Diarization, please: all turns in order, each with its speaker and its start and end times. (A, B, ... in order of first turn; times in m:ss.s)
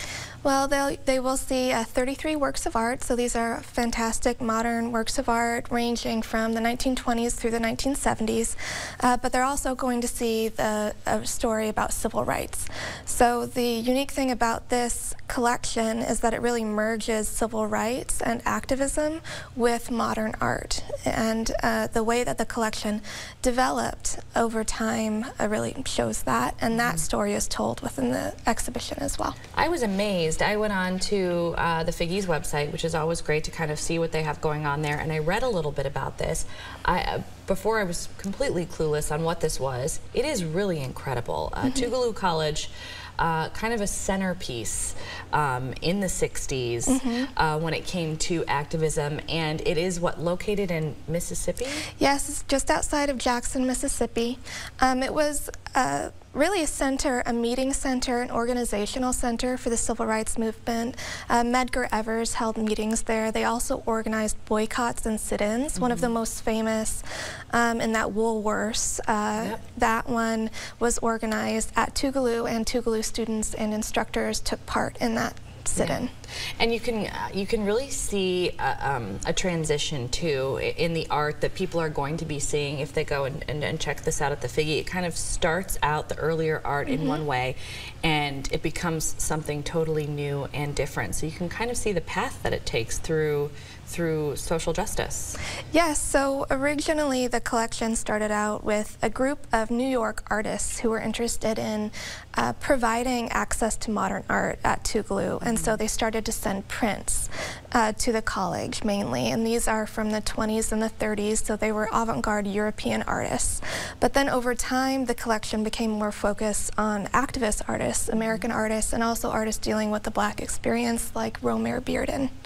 0:00.4-0:29.4 A
0:26.8-0:27.0 B
0:29.6-0:51.9 B
0:46.9-0:47.3 A
0:52.0-1:16.1 A
1:05.8-1:06.1 B
1:15.8-1:16.0 B
1:16.6-1:35.4 B
1:26.9-1:27.2 A
1:35.7-2:02.3 A
1:45.4-1:45.7 B